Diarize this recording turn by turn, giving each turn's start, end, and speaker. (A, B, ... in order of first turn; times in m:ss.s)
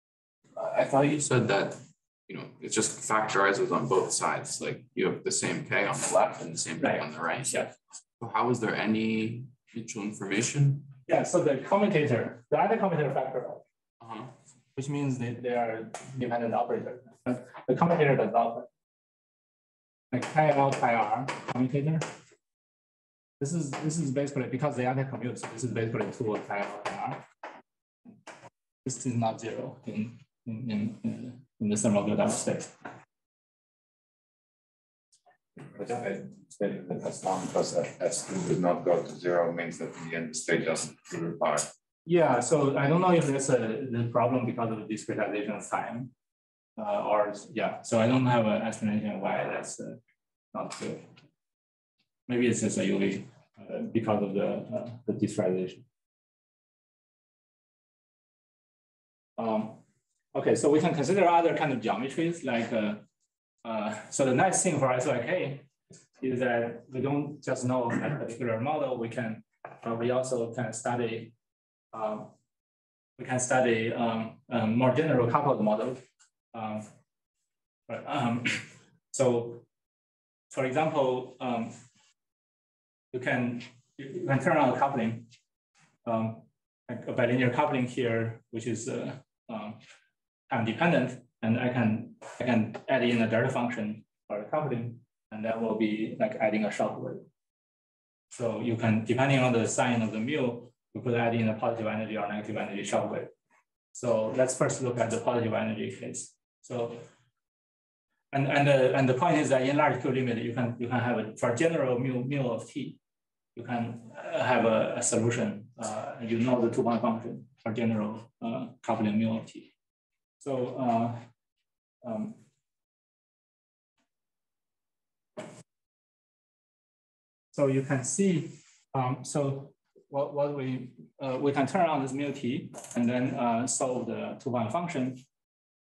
0:00.6-0:10.9 A
0:06.8-0:07.7 B
0:11.1-0:13.6 B
0:14.0-0:14.3 A
0:14.8-0:18.7 B
0:20.1-0:22.1 B
0:23.4-0:27.2 B
0:28.8-0:32.8 B
0:35.6-0:41.7 C
0:42.1-0:46.1 B
0:46.8-0:50.0 B
0:50.5-0:51.1 B
0:52.3-0:55.8 B
0:59.4-0:59.8 B
1:00.3-1:03.0 B
1:03.6-1:05.7 B
1:06.2-1:11.3 B
1:11.9-1:12.3 B
1:13.2-1:16.9 B
1:17.9-1:19.6 B
1:20.5-1:21.8 B
1:23.1-1:25.3 B
1:26.0-1:29.8 B
1:30.5-1:37.2 B
1:38.3-1:43.3 B
1:43.9-1:47.1 B
1:48.3-1:53.0 B
1:53.6-1:59.7 B
2:00.4-2:01.2 B
2:02.0-2:02.4 B
2:07.5-2:15.2 B